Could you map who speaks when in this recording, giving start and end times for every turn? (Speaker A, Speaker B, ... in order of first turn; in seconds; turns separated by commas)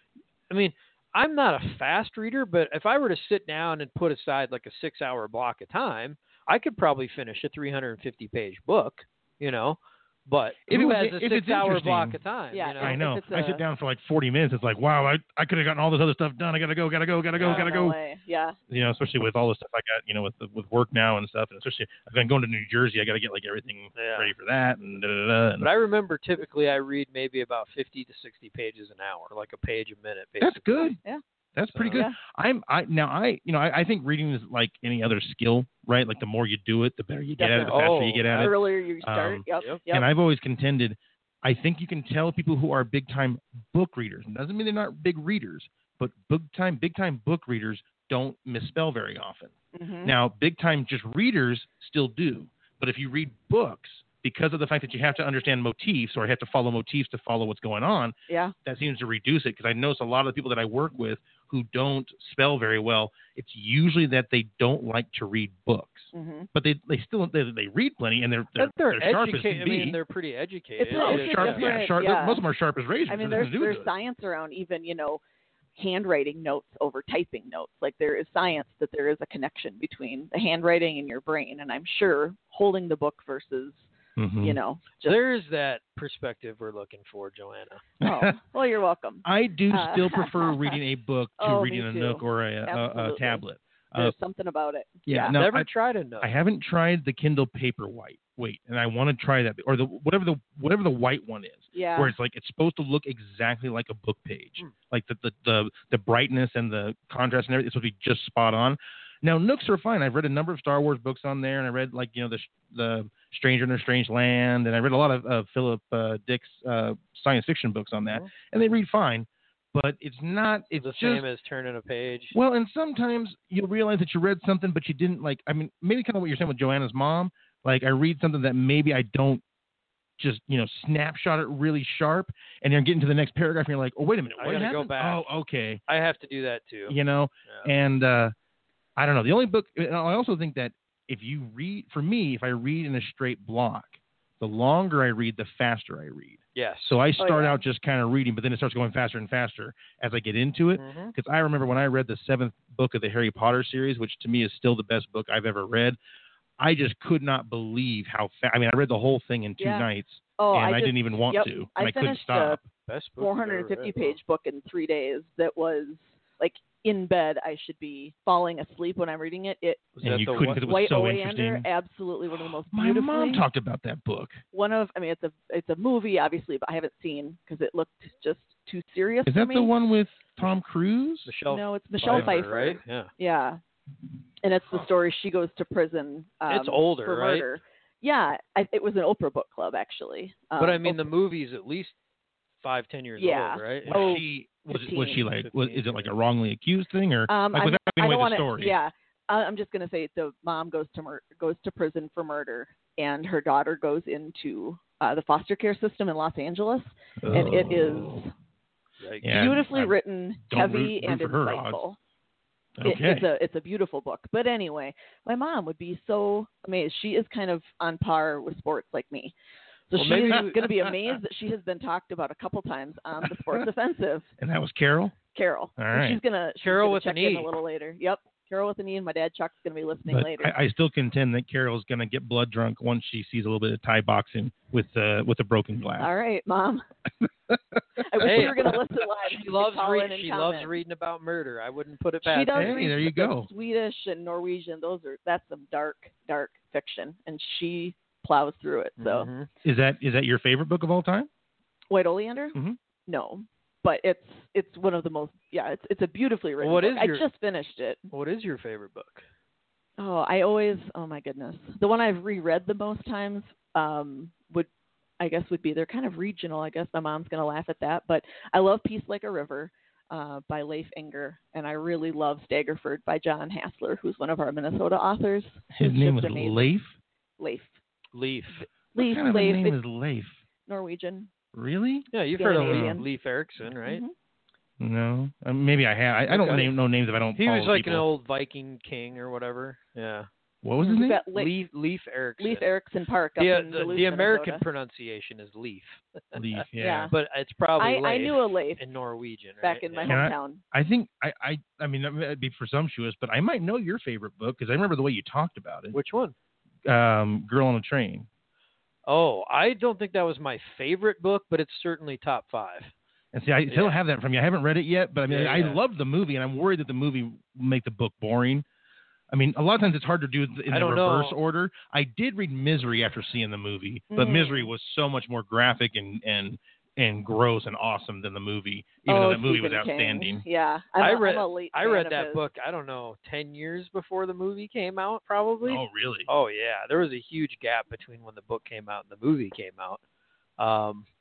Speaker A: 0.5-13.0, Speaker B: 10.7-12.2, Speaker C: 12.5-13.6, Speaker B: 12.8-18.0, Speaker A: 17.4-17.7, Speaker C: 17.4-18.6, Speaker B: 18.7-25.7, Speaker A: 23.9-24.3, Speaker A: 25.6-30.6, Speaker B: 30.4-31.0, Speaker B: 31.6-49.5, Speaker A: 31.7-32.0, Speaker C: 31.9-32.2, Speaker C: 37.4-40.1, Speaker A: 37.7-38.5, Speaker A: 39.5-39.8, Speaker C: 49.8-50.1, Speaker B: 50.0-58.1, Speaker C: 58.3-58.5, Speaker B: 58.6-70.0, Speaker C: 66.1-66.5, Speaker A: 68.6-71.8, Speaker C: 70.8-72.4, Speaker B: 71.0-73.9, Speaker C: 73.1-75.2, Speaker C: 75.8-83.9, Speaker B: 84.2-84.6, Speaker C: 84.4-85.2, Speaker A: 85.0-87.8, Speaker B: 88.0-88.4, Speaker C: 88.0-90.8, Speaker B: 89.2-94.2, Speaker C: 91.4-93.4, Speaker C: 94.0-95.4, Speaker B: 95.1-95.7, Speaker A: 95.3-96.3, Speaker B: 96.2-121.2, Speaker C: 101.7-102.1, Speaker A: 120.8-122.3, Speaker B: 122.3-129.4, Speaker B: 130.2-135.8, Speaker A: 134.3-135.3, Speaker A: 135.9-137.7, Speaker B: 136.9-138.3, Speaker B: 139.0-156.0, Speaker A: 146.6-147.0, Speaker C: 147.2-147.6, Speaker A: 150.8-151.1, Speaker B: 156.6-162.7, Speaker C: 159.6-159.9, Speaker C: 160.4-162.6, Speaker A: 162.9-164.2, Speaker C: 163.2-169.9, Speaker A: 170.0-170.6, Speaker B: 170.0-171.7, Speaker C: 170.7-173.4, Speaker B: 172.7-174.4, Speaker C: 174.5-179.7, Speaker B: 179.3-181.3, Speaker A: 181.3-183.1, Speaker C: 181.5-183.6, Speaker B: 182.1-182.4, Speaker C: 184.4-191.1, Speaker A: 186.5-187.5, Speaker A: 190.6-191.9, Speaker A: 192.6-194.2, Speaker C: 193.2-195.2, Speaker B: 193.8-198.8, Speaker A: 195.2-196.1, Speaker C: 197.3-208.3, Speaker B: 207.2-208.2, Speaker A: 209.0-209.3, Speaker B: 209.2-210.0, Speaker C: 209.3-212.0, Speaker B: 210.5-211.8, Speaker B: 212.8-213.3, Speaker C: 212.8-219.3, Speaker C: 219.9-224.3, Speaker A: 220.0-220.6, Speaker B: 220.2-220.9, Speaker B: 224.4-225.2, Speaker C: 225.3-230.5, Speaker B: 225.8-226.2, Speaker A: 226.6-227.5, Speaker B: 230.1-236.1, Speaker C: 236.0-236.8, Speaker C: 238.0-240.8, Speaker B: 238.2-238.7, Speaker A: 238.2-238.7, Speaker A: 239.2-242.9, Speaker C: 242.2-249.3, Speaker B: 242.6-243.5, Speaker A: 249.0-249.5, Speaker B: 249.6-251.3, Speaker C: 251.9-252.6, Speaker C: 253.1-258.1, Speaker A: 256.6-257.3, Speaker A: 258.1-259.2, Speaker C: 260.0-264.7, Speaker C: 265.2-276.7, Speaker B: 275.8-276.9, Speaker C: 277.4-277.8, Speaker A: 278.1-278.6, Speaker C: 278.5-279.8, Speaker B: 279.0-280.4, Speaker C: 280.7-281.3, Speaker B: 281.5-283.0, Speaker A: 282.1-284.0, Speaker C: 282.4-283.1, Speaker C: 283.8-284.1, Speaker B: 284.8-288.1, Speaker A: 286.3-286.7, Speaker A: 287.4-290.3, Speaker B: 290.6-291.2, Speaker C: 290.8-291.5, Speaker A: 291.3-292.7, Speaker C: 292.4-294.6, Speaker A: 293.4-300.2, Speaker B: 296.4-297.1, Speaker C: 296.8-297.1, Speaker C: 297.8-298.8, Speaker C: 299.6-300.6, Speaker B: 300.1-306.0, Speaker A: 305.9-306.4, Speaker B: 306.9-308.3, Speaker A: 309.1-312.9, Speaker B: 313.3-318.6, Speaker A: 313.7-314.0, Speaker A: 315.3-315.8, Speaker B: 319.3-330.4, Speaker A: 320.7-321.4, Speaker C: 324.1-324.7, Speaker C: 329.1-332.4, Speaker A: 331.0-340.0, Speaker B: 335.6-336.3, Speaker A: 340.6-341.1